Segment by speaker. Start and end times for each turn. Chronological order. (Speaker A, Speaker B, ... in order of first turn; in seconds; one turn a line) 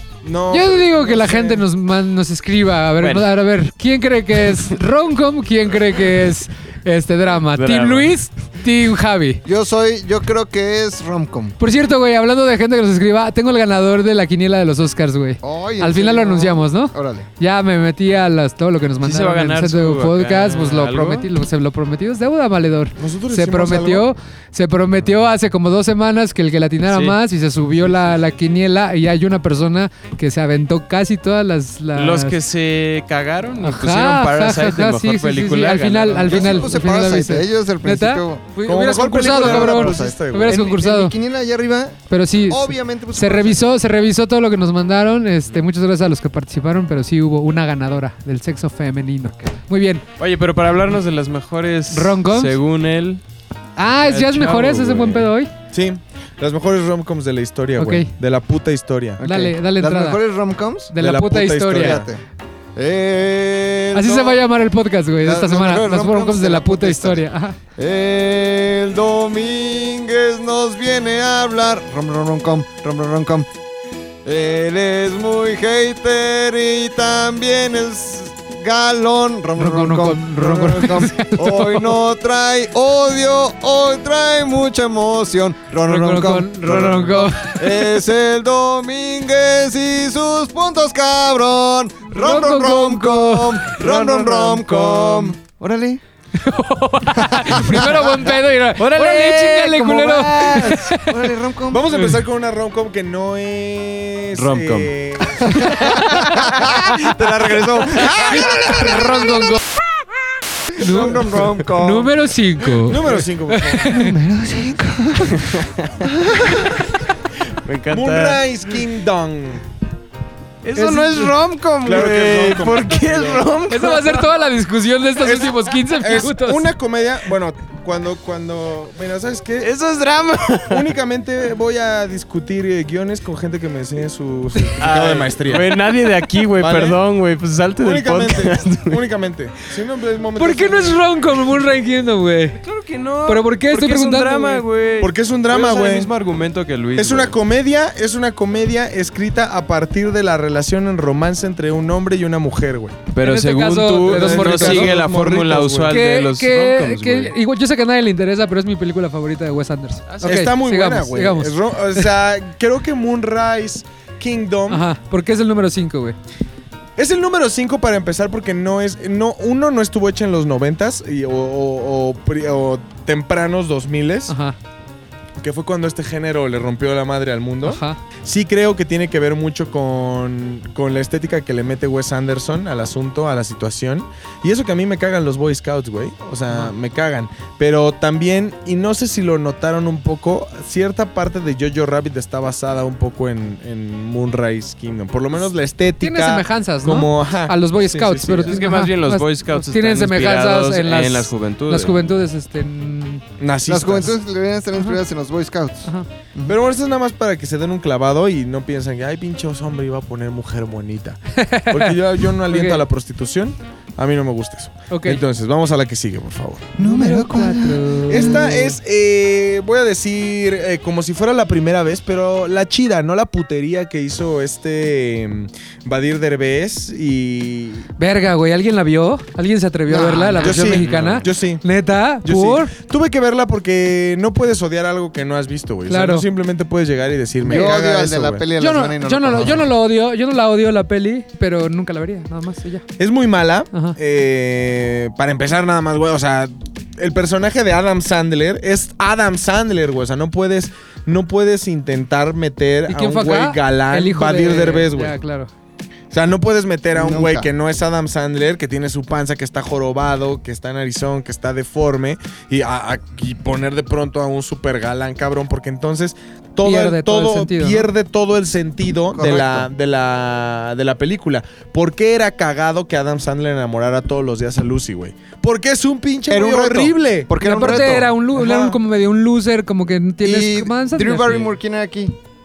Speaker A: 0.2-1.6
Speaker B: 0.5-9.4
Speaker C: 3.0-3.3
Speaker C: 7.5-8.2
Speaker D: 9.4-11.6
Speaker B: 11.6-32.4
Speaker D: 15.4-17.3
Speaker C: 19.0-21.3
Speaker A: 23.0-24.1
Speaker C: 26.9-27.2
Speaker C: 31.9-36.7
Speaker B: 33.6-41.1
Speaker D: 36.2-38.4
Speaker A: 38.6-40.6
Speaker D: 39.2-43.6
Speaker B: 42.1-50.0
Speaker C: 50.2-53.2
Speaker B: 51.9-52.5
Speaker B: 53.8-55.5
Speaker C: 53.9-55.3
Speaker A: 55.7-59.2
Speaker B: 57.8-58.1
Speaker D: 59.2-60.9
Speaker B: 59.2-60.2
Speaker B: 60.9-62.0
Speaker A: 61.0-62.1
Speaker D: 61.7-62.2
Speaker D: 62.7-64.4
Speaker B: 63.9-67.6
Speaker D: 65.2-73.5
Speaker D: 74.2-96.0
Speaker B: 79.6-82.0
Speaker B: 85.8-87.9
Speaker B: 92.1-93.6
Speaker C: 93.8-95.1
Speaker A: 93.8-94.7
Speaker B: 96.4-101.1
Speaker D: 97.2-98.1
Speaker C: 98.8-100.8
Speaker D: 99.9-101.9
Speaker A: 101.7-109.1
Speaker C: 104.3-104.9
Speaker D: 105.5-106.7
Speaker C: 105.8-106.5
Speaker D: 107.4-109.4
Speaker B: 108.8-109.5
Speaker D: 110.7-112.1
Speaker B: 110.8-114.1
Speaker A: 110.8-111.5
Speaker A: 112.7-114.0
Speaker D: 113.9-116.8
Speaker C: 115.3-115.9
Speaker C: 117.6-118.8
Speaker A: 117.9-119.6
Speaker C: 120.6-124.3
Speaker B: 120.8-121.1
Speaker A: 121.8-123.5
Speaker B: 123.7-126.7
Speaker A: 125.2-129.7
Speaker C: 129.6-130.9
Speaker A: 130.7-135.8
Speaker C: 134.8-139.0
Speaker A: 136.6-137.0
Speaker A: 137.8-141.0
Speaker B: 140.4-142.6
Speaker C: 142.6-147.3
Speaker B: 143.2-144.6
Speaker A: 145.0-146.1
Speaker A: 146.9-153.0
Speaker C: 153.1-157.3
Speaker B: 153.2-154.9
Speaker A: 154.0-155.9
Speaker B: 155.9-162.1
Speaker C: 160.1-160.5
Speaker A: 160.2-164.8
Speaker B: 164.7-166.2
Speaker A: 167.0-174.3
Speaker B: 174.3-174.6
Speaker A: 175.4-198.6
Speaker B: 177.6-178.0
Speaker B: 196.0-203.2
Speaker C: 198.4-202.0
Speaker A: 203.4-204.1
Speaker D: 203.7-206.6
Speaker A: 206.5-216.7
Speaker B: 211.4-212.8
Speaker B: 214.9-215.2
Speaker D: 216.8-218.8
Speaker B: 216.8-218.5
Speaker A: 218.1-227.9
Speaker B: 228.0-232.7
Speaker D: 229.9-230.8
Speaker A: 230.4-231.6
Speaker C: 230.6-231.2
Speaker A: 232.2-238.4
Speaker B: 235.9-236.2
Speaker D: 237.4-239.7
Speaker B: 238.6-242.8
Speaker A: 243.0-255.2
Speaker B: 252.9-255.5
Speaker A: 256.1-278.8
Speaker D: 256.9-257.5
Speaker B: 266.6-267.9
Speaker D: 269.1-269.7
Speaker D: 276.3-278.1
Speaker B: 277.4-281.5
Speaker D: 280.2-282.1